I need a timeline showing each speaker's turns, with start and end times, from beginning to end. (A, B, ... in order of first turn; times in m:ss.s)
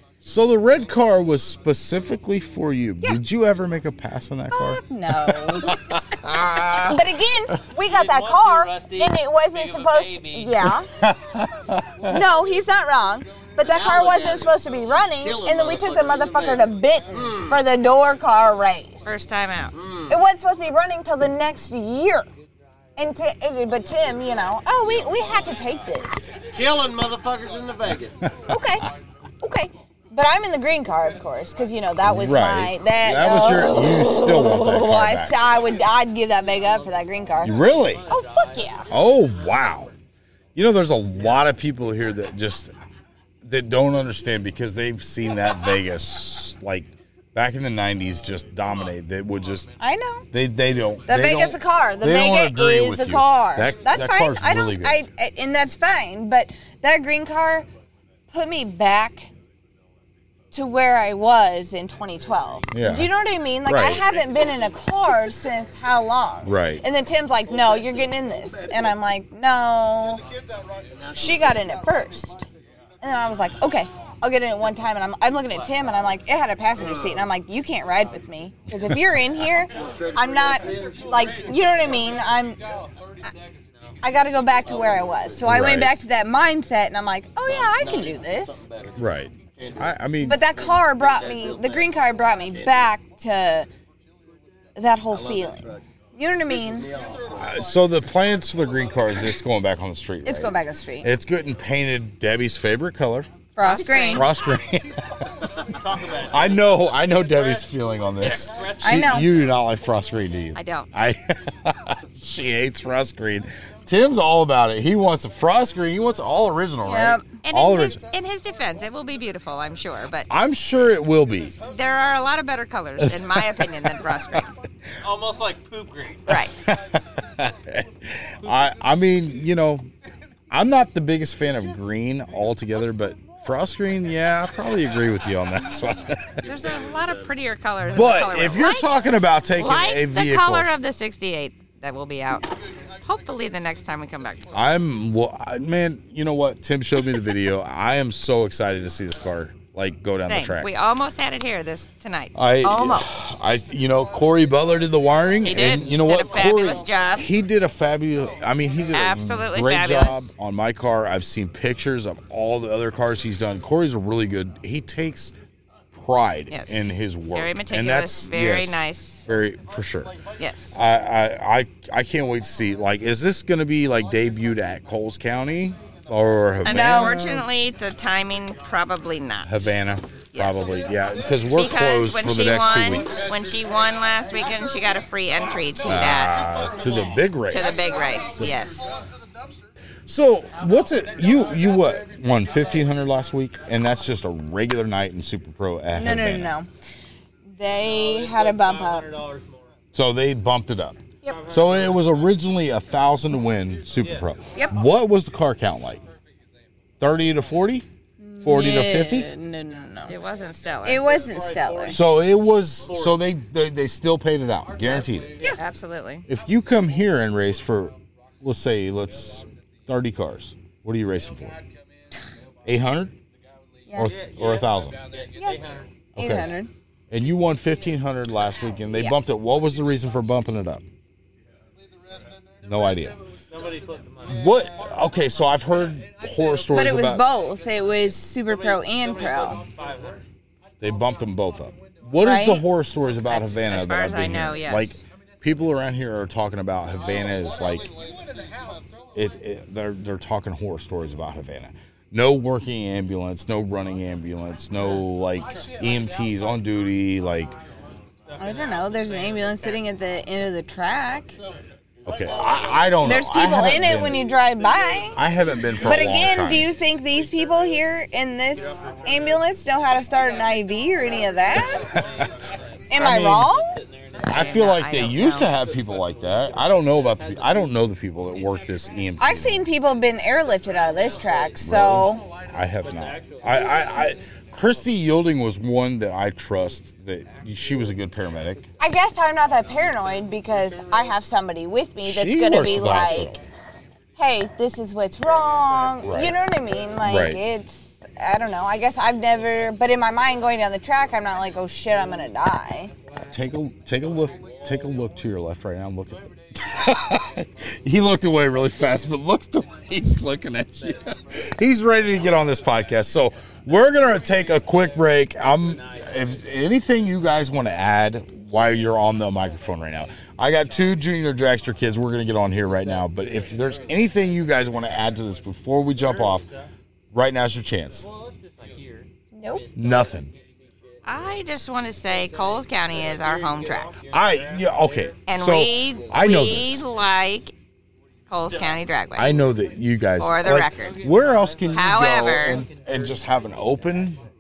0:00.2-0:04.8 A
0:04.5-0:05.8 B
0:05.5-0:07.0 A
0:06.7-0:10.9 B
0:07.8-0:10.6 C
0:11.0-0:12.0 A
0:12.0-0:19.1 B
0:13.6-0:14.5 D
0:15.2-0:17.6 D
0:19.0-0:19.8 E
0:19.7-0:20.2 D
0:20.1-0:22.3 B
0:23.0-0:26.3 B
0:26.5-0:28.2 D
0:28.5-0:28.9 B
0:29.4-0:38.9 B
0:32.0-0:35.4 A
0:37.4-0:38.1 A
0:38.2-0:38.5 C
0:38.9-0:39.9 A
0:40.6-0:42.7 A
0:43.4-0:49.7 A
0:49.8-0:50.3 B
0:50.3-0:55.0 A
0:51.1-0:57.7 B
0:58.3-0:59.3 B
1:00.5-1:10.2 B
1:02.7-1:03.1 A
1:03.6-1:04.0 A
1:06.4-1:06.8 A
1:11.1-1:12.4 B
1:13.0-1:22.6 B
1:20.0-1:21.0 D
1:24.0-1:28.6 B
1:25.4-1:25.9 A
1:29.0-1:30.4 A
1:30.2-1:33.7 B
1:34.8-1:36.9 B
1:37.4-1:43.3 A
1:40.2-1:41.1 B
1:43.6-1:44.3 B
1:43.6-1:44.2 E
1:44.1-1:45.1 A
1:45.6-1:49.3 C
1:46.2-1:58.0 A
1:48.8-1:49.3 B
1:50.6-1:50.9 E
1:56.8-1:57.4 B
1:57.4-2:00.3 E
2:00.3-2:01.6 A
2:01.6-2:04.5 E
2:03.0-2:04.4 A
2:05.0-2:06.3 C
2:06.3-2:09.9 A
2:10.5-2:16.6 A
2:16.4-2:18.9 E
2:17.9-2:20.7 A
2:19.6-2:24.5 E
2:24.5-2:30.7 A
2:30.2-2:33.3 E
2:32.4-2:45.3 A
2:35.4-2:37.3 E
2:38.9-2:40.3 E
2:45.9-2:50.1 A
2:46.5-2:49.2 E
2:50.4-2:50.8 E
2:50.7-2:57.5 A
2:56.6-2:59.7 E
2:56.7-2:57.2 B
2:59.4-3:03.2 A
3:00.3-3:00.8 E
3:01.5-3:06.4 E
3:05.8-3:08.6 A
3:07.5-3:09.0 E
3:10.1-3:16.5 A
3:15.9-3:16.7 B
3:17.6-3:19.2 B
3:17.7-3:19.7 C
3:19.9-3:26.0 A
3:21.3-3:22.3 C
3:24.0-3:24.4 C
3:27.0-3:27.9 A
3:28.2-3:30.2 B
3:28.4-3:29.3 A
3:30.1-3:31.1 E
3:30.8-3:32.0 B
3:31.1-3:33.3 C
3:31.9-3:35.4 A
3:34.8-3:35.2 C
3:35.6-3:36.3 E
3:36.3-3:41.6 A
3:42.7-3:43.1 A
3:43.9-3:45.0 A
3:44.0-3:46.0 C
3:46.2-3:46.5 A
3:46.2-3:46.7 B
3:47.1-3:50.8 A
3:52.6-3:53.2 A
3:53.5-3:54.6 C
3:54.3-3:57.2 A
3:56.7-3:59.6 B
3:58.5-4:00.2 C
4:00.8-4:07.9 A
4:02.2-4:02.6 B
4:03.3-4:05.0 E
4:09.1-4:17.6 A
4:18.3-4:19.8 C
4:18.4-4:21.4 B
4:22.1-4:24.2 A
4:23.0-4:25.2 B
4:25.2-4:26.7 A
4:25.8-4:31.9 B
4:31.6-4:32.5 C
4:31.7-4:32.3 A
4:32.9-4:33.8 B
4:32.9-4:33.5 A
4:34.3-4:39.6 A
4:34.3-4:35.6 E
4:39.2-4:42.3 B
4:41.6-4:48.6 A
4:42.8-4:44.2 C
4:48.8-4:53.4 B
4:52.0-4:53.4 A
4:54.2-5:02.9 B
4:56.0-4:56.4 A
4:57.0-4:57.4 A
5:03.2-5:26.5 A
5:23.2-5:24.1 C
5:27.1-5:28.0 A
5:28.0-5:30.3 C
5:29.3-5:29.7 B
5:29.7-5:30.3 A
5:31.0-5:34.0 E
5:32.7-5:35.0 C
5:34.1-5:36.9 A
5:35.3-5:37.5 E
5:38.3-5:39.3 E
5:38.5-5:38.8 C
5:39.2-5:44.2 A
5:40.2-5:41.0 E
5:41.2-5:41.8 C
5:41.7-5:42.6 E
5:42.6-5:43.2 C